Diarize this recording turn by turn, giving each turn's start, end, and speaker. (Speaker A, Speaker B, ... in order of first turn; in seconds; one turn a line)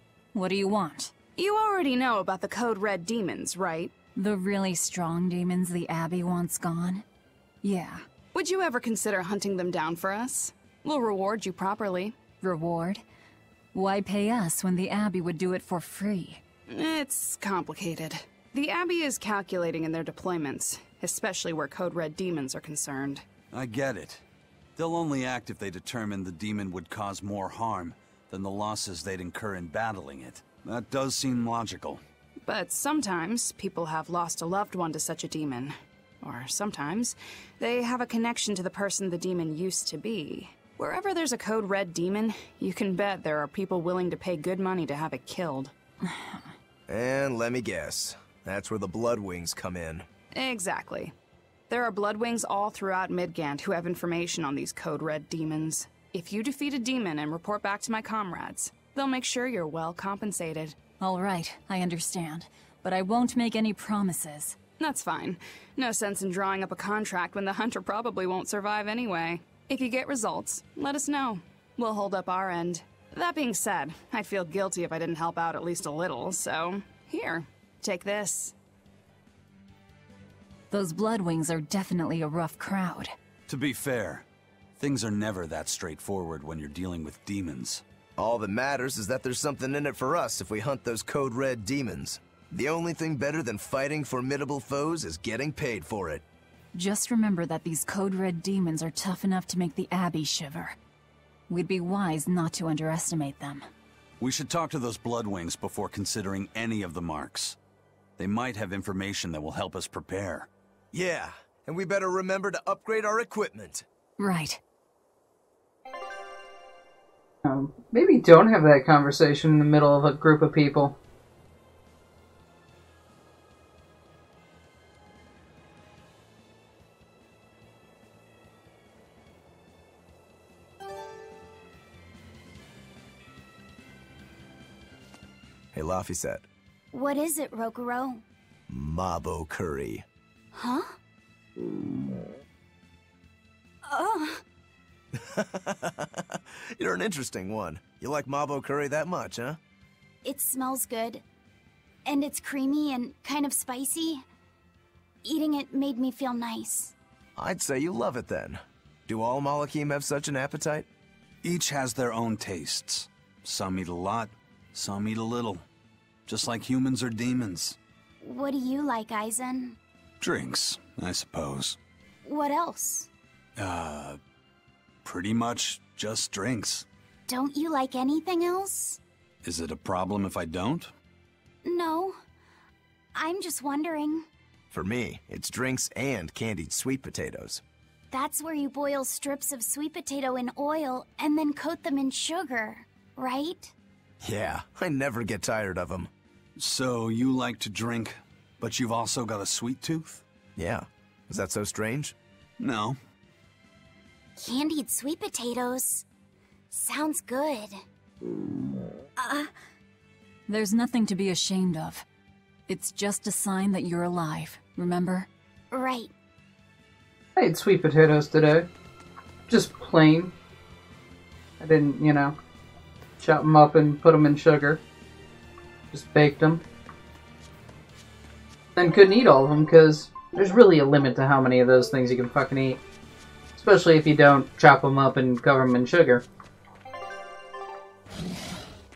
Speaker A: 0.3-1.2
Speaker B: 1.4-3.9
Speaker A: 4.2-7.0
Speaker A: 7.6-8.0
Speaker B: 8.3-12.2
Speaker A: 12.4-13.0
Speaker A: 13.7-16.4
Speaker B: 16.7-23.3
Speaker C: 23.5-24.2
Speaker C: 24.8-32.0
Speaker B: 32.4-45.7
Speaker A: 46.0-46.5
Speaker D: 46.9-50.1
Speaker B: 50.3-51.1
Speaker B: 51.7-60.8
Speaker A: 61.0-64.6
Speaker B: 64.8-78.5
Speaker A: 80.7-83.1
Speaker C: 83.5-84.3
Speaker C: 84.8-87.8
Speaker D: 88.2-96.2
Speaker A: 96.8-100.8
Speaker A: 101.5-103.7
Speaker C: 104.2-107.6
Speaker C: 108.2-110.5
Speaker D: 110.9-113.9
Speaker A: 114.2-114.6
Speaker E: 117.4-121.0
Speaker D: 135.7-136.5
Speaker F: 136.9-138.2
Speaker D: 138.7-140.1
Speaker F: 140.5-141.0
Speaker F: 143.8-144.4
Speaker D: 145.1-149.6
Speaker F: 150.2-151.2
Speaker F: 152.1-154.3
Speaker F: 155.2-156.9
Speaker D: 157.4-160.9
Speaker C: 161.4-165.6
Speaker C: 166.3-167.8
Speaker F: 168.2-169.8
Speaker C: 170.2-171.8
Speaker F: 172.2-173.1
Speaker C: 173.6-174.2
Speaker C: 175.1-176.9
Speaker F: 177.3-179.0
Speaker C: 179.4-180.9
Speaker F: 181.7-182.2
Speaker F: 183.2-184.3
Speaker D: 184.7-187.6
Speaker F: 188.1-193.7
Speaker D: 194.2-196.1
Speaker C: 196.6-200.2
Speaker D: 200.6-202.2
Speaker C: 202.6-203.0
Speaker F: 204.4-206.1
Speaker F: 206.7-207.8
Speaker A: 209.2-209.5
Speaker A: 210.5-212.1
Speaker A: 212.7-215.3
Speaker F: 215.7-216.1
Speaker E: 217.4-218.7
Speaker E: 219.5-220.3
Speaker E: 221.6-222.4
Speaker E: 223.2-224.8
Speaker E: 225.9-226.6
Speaker E: 228.8-232.8
Speaker E: 233.6-236.2